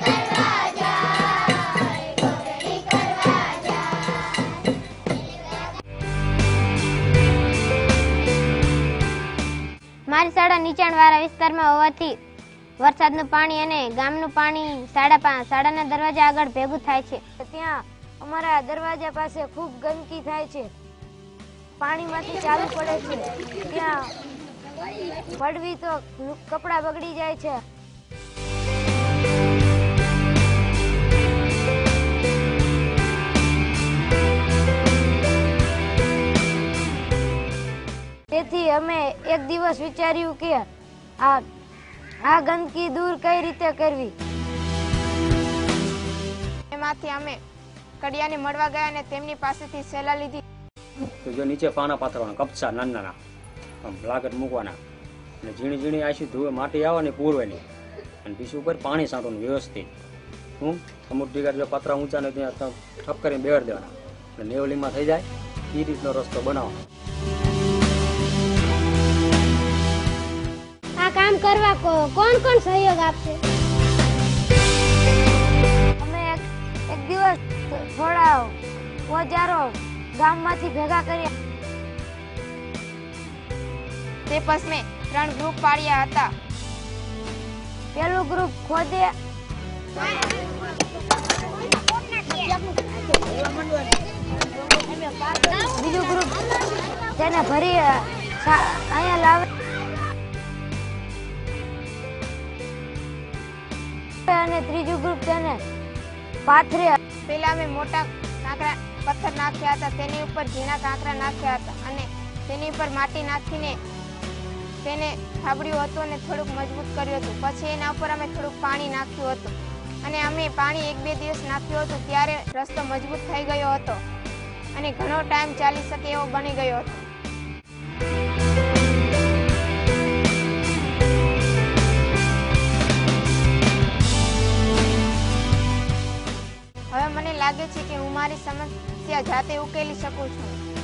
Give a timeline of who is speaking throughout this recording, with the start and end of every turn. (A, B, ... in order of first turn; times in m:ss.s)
0:10.1-0:12.2 A
0:12.8-0:17.2 A
0:17.4-0:20.7 B
0:21.8-0:24.1 B
0:25.3-0:27.6 B
0:38.3-0:40.7 B
0:41.2-0:41.4 B
0:42.2-0:44.1 B
0:46.7-0:47.4 C
0:48.0-0:50.4 C
0:51.2-0:53.2 D
0:53.8-0:54.8 D
0:55.4-0:57.6 D
0:58.2-0:59.9 D
1:00.6-1:06.8 D
1:11.0-1:13.4 A
1:16.0-1:21.3 B
1:24.3-1:26.3 C
1:27.9-1:29.1 B
1:35.5-1:36.4 B
1:37.1-1:39.4 B
1:44.3-1:45.6 B
1:46.4-1:47.0 B
1:47.3-1:53.8 C
1:54.8-2:04.0 C
2:04.7-2:07.0 C
2:16.9-2:20.6 C